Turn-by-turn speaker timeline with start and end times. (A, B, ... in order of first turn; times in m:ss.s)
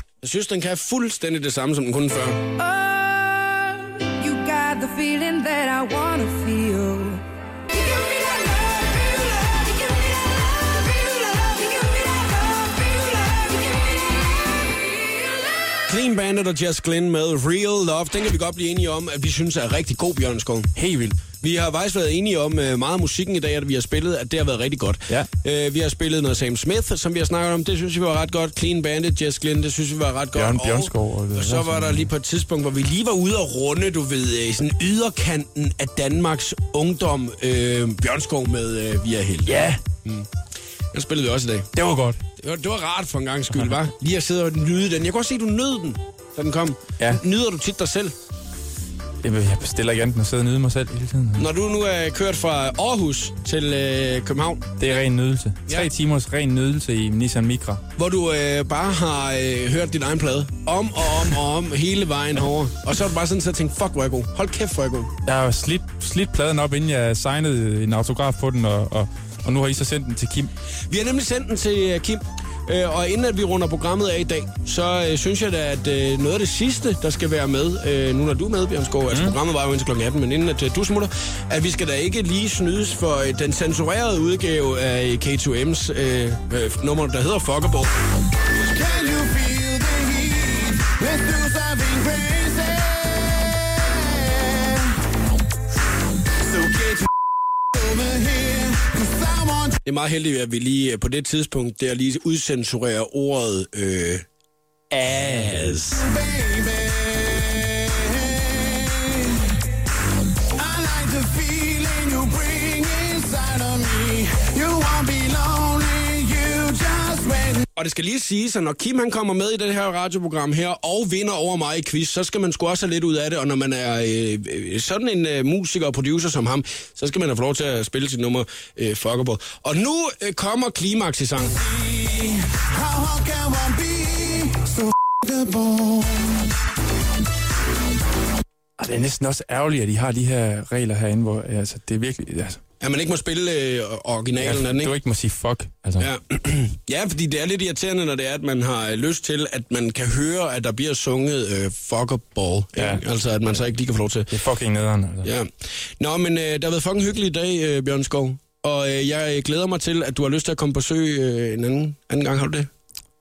0:00.2-0:02.4 A
0:02.6-0:07.2 B
0:15.9-0:20.8 A
0:20.8-0:21.2 C
0:21.3-0:40.3 A
0:30.4-0:32.1 C
0:39.5-0:39.8 C
0:40.9-0:41.7 A
0:41.8-0:42.2 C
0:42.4-0:48.1 A
0:49.2-0:51.5 C
0:51.4-0:54.8 A
0:54.8-0:57.8 C
0:58.0-1:05.1 A
1:05.3-1:10.5 C
1:10.9-1:27.9 A
1:19.1-1:19.4 C
1:28.5-1:29.2 A
1:28.7-1:35.0 D
1:36.4-1:37.1 D
1:37.7-1:39.8 D
1:39.8-1:44.2 A
1:44.9-1:45.8 C
1:45.1-1:46.0 A
1:45.9-1:49.6 D
1:50.6-1:57.7 D
1:57.8-2:11.6 A
2:11.4-2:16.4 D
2:18.8-2:22.6 C
2:22.8-2:24.9 A
2:24.4-2:26.1 C
2:26.0-2:34.3 A
2:32.8-2:33.0 C
2:34.3-2:35.3 C
2:35.2-2:35.5 A
2:36.0-2:42.7 A